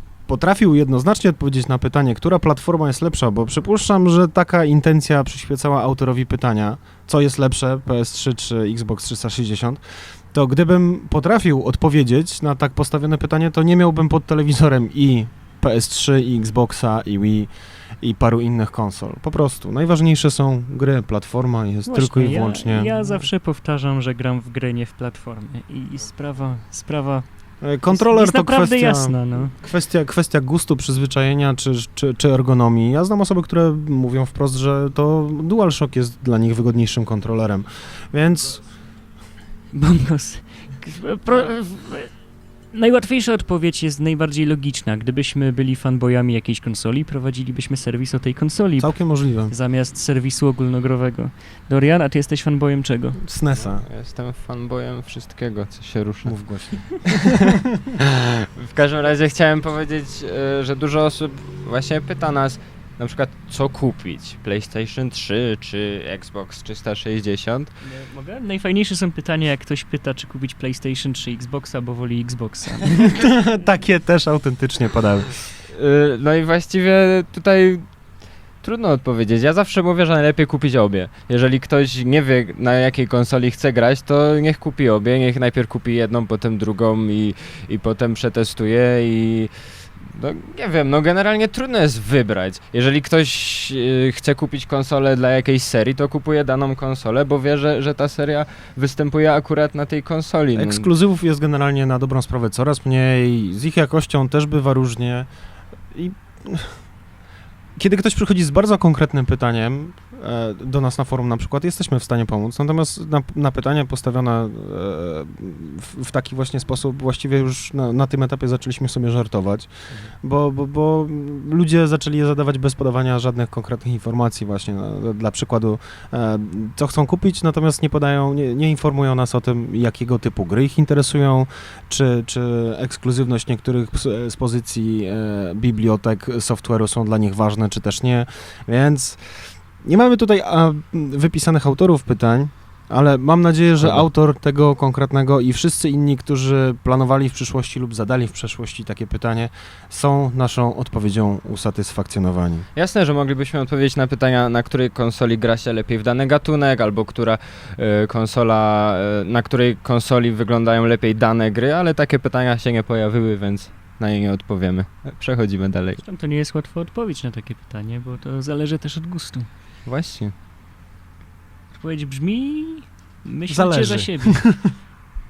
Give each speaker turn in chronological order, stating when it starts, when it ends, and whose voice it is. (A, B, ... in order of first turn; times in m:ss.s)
0:00.3-0:23.2 A
0:21.9-0:29.5 B
0:27.6-0:38.7 A
0:39.7-0:42.2 B
0:42.7-0:53.2 B
0:48.8-0:49.5 A
0:53.2-0:53.9 A
0:53.6-0:57.4 C
0:56.2-0:57.4 A
0:58.6-1:07.7 C
1:07.8-1:13.2 B
1:13.1-1:15.5 A
1:15.7-1:40.9 C
1:40.5-1:45.3 A
1:45.9-1:46.9 A
1:47.8-2:32.6 A
2:23.8-2:24.1 C
2:32.8-2:46.0 C
2:46.0-2:49.5 B
2:49.8-2:50.3 C
2:51.7-2:54.6 B
2:53.5-2:54.7 A